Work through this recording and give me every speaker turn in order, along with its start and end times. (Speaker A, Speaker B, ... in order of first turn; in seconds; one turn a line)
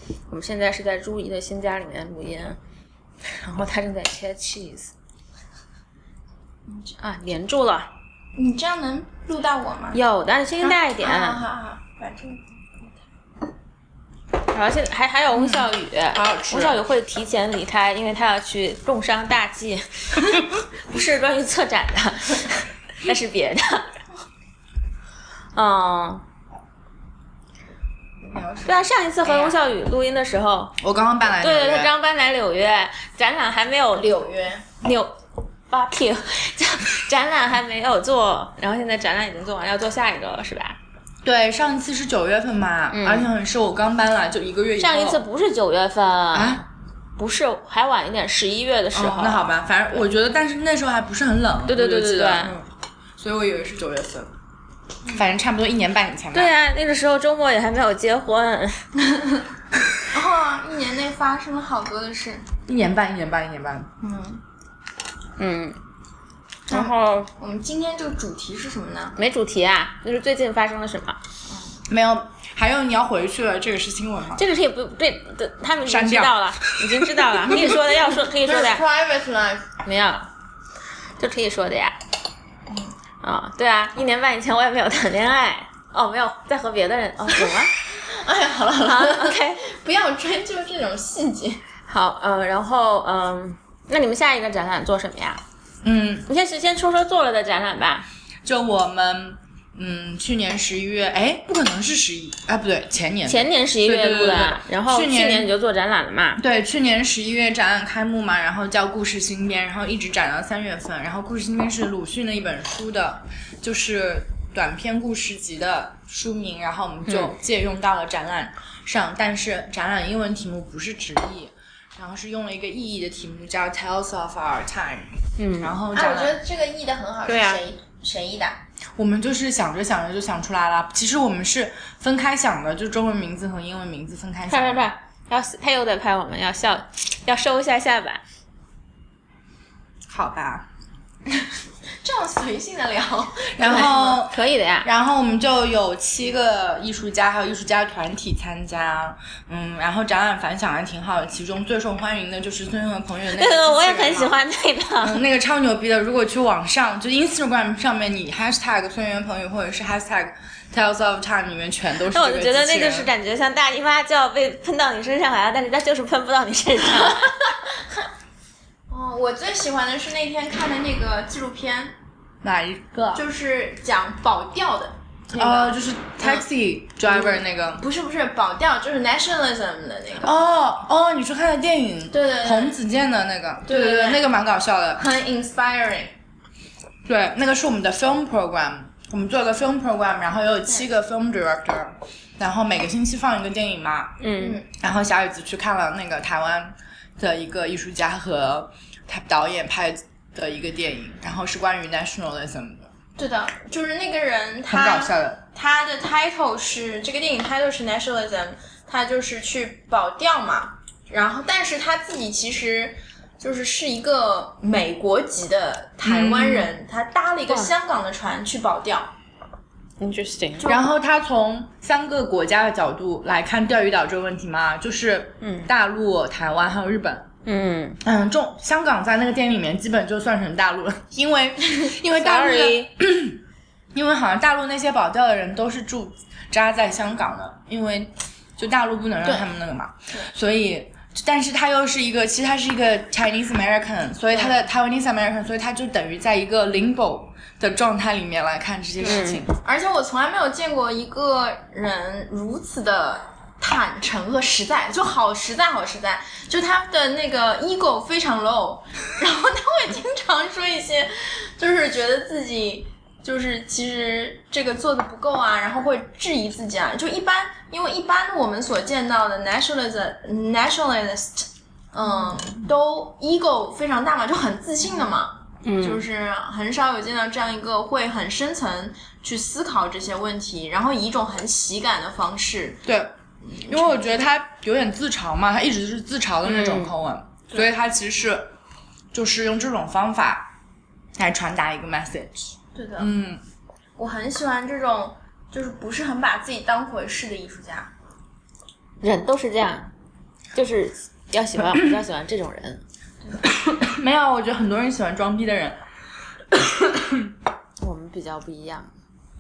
Speaker A: 0.3-2.6
Speaker A: 3.4-4.9
Speaker B: 6.7-6.9
Speaker A: 7.0-7.9
Speaker B: 8.4-10.0
Speaker A: 9.9-11.4
Speaker B: 10.6-12.9
Speaker A: 14.4-23.9
Speaker C: 15.3-16.8
Speaker A: 25.6-26.2
Speaker C: 28.2-29.5
Speaker A: 28.6-35.1
Speaker C: 30.8-31.9
Speaker B: 34.1-34.4
Speaker A: 35.7-40.8
Speaker C: 41.2-45.2
Speaker A: 42.9-43.3
Speaker A: 44.8-46.6
Speaker C: 46.3-46.6
Speaker A: 47.2-49.5
Speaker C: 48.9-52.7
Speaker A: 51.7-52.5
Speaker C: 53.2-54.3
Speaker C: 55.1-56.5
Speaker A: 56.3-58.9
Speaker B: 60.1-62.5
Speaker C: 62.7-63.9
Speaker B: 64.0-64.4
Speaker A: 65.4-65.8
Speaker A: 66.7-67.3
Speaker B: 66.7-69.2
Speaker A: 69.2-71.2
Speaker B: 71.5-71.8
Speaker C: 71.9-74.4
Speaker A: 74.3-78.8
Speaker C: 75.8-77.8
Speaker B: 78.4-79.7
Speaker A: 79.8-80.3
Speaker A: 81.2-82.0
Speaker A: 83.2-87.7
Speaker B: 87.9-91.6
Speaker A: 88.8-89.6
Speaker A: 91.9-95.4
Speaker C: 95.8-96.3
Speaker A: 96.3-98.1
Speaker C: 98.5-105.5
Speaker A: 103.2-106.4
Speaker C: 106.4-126.4
Speaker A: 117.1-117.3
Speaker A: 125.4-125.8
Speaker B: 125.9-128.6
Speaker A: 127.3-127.6
Speaker C: 129.0-134.8
Speaker A: 134.5-138.2
Speaker C: 140.1-140.7
Speaker B: 142.0-144.2
Speaker C: 143.6-154.4
Speaker A: 143.6-144.9
Speaker A: 153.3-155.2
Speaker C: 155.0-163.1
Speaker A: 162.1-167.8
Speaker B: 168.9-171.9
Speaker C: 172.4-173.1
Speaker B: 173.1-176.4
Speaker C: 175.3-177.8
Speaker B: 177.1-180.3
Speaker C: 180.2-185.1
Speaker B: 182.1-182.8
Speaker B: 183.7-184.3
Speaker B: 185.0-186.2
Speaker C: 187.1-194.2
Speaker A: 194.2-194.6
Speaker B: 194.4-194.7
Speaker C: 194.8-202.8
Speaker B: 203.2-219.1
Speaker C: 204.7-205.4
Speaker C: 216.0-216.7
Speaker A: 220.0-220.8
Speaker B: 220.6-220.9
Speaker C: 220.7-227.3
Speaker A: 225.4-225.7
Speaker A: 227.4-228.0
Speaker C: 228.0-233.4
Speaker A: 232.1-232.9
Speaker C: 233.9-249.6
Speaker A: 249.0-249.5
Speaker B: 249.6-282.8
Speaker A: 275.6-276.1
Speaker C: 282.9-288.5
Speaker B: 283.6-284.2
Speaker A: 286.4-286.9
Speaker C: 289.1-290.5
Speaker C: 291.2-293.4
Speaker B: 292.8-293.1
Speaker B: 294.0-297.9
Speaker A: 299.0-299.9
Speaker A: 300.5-302.8
Speaker C: 303.5-305.8
Speaker C: 306.5-307.3
Speaker A: 307.8-308.9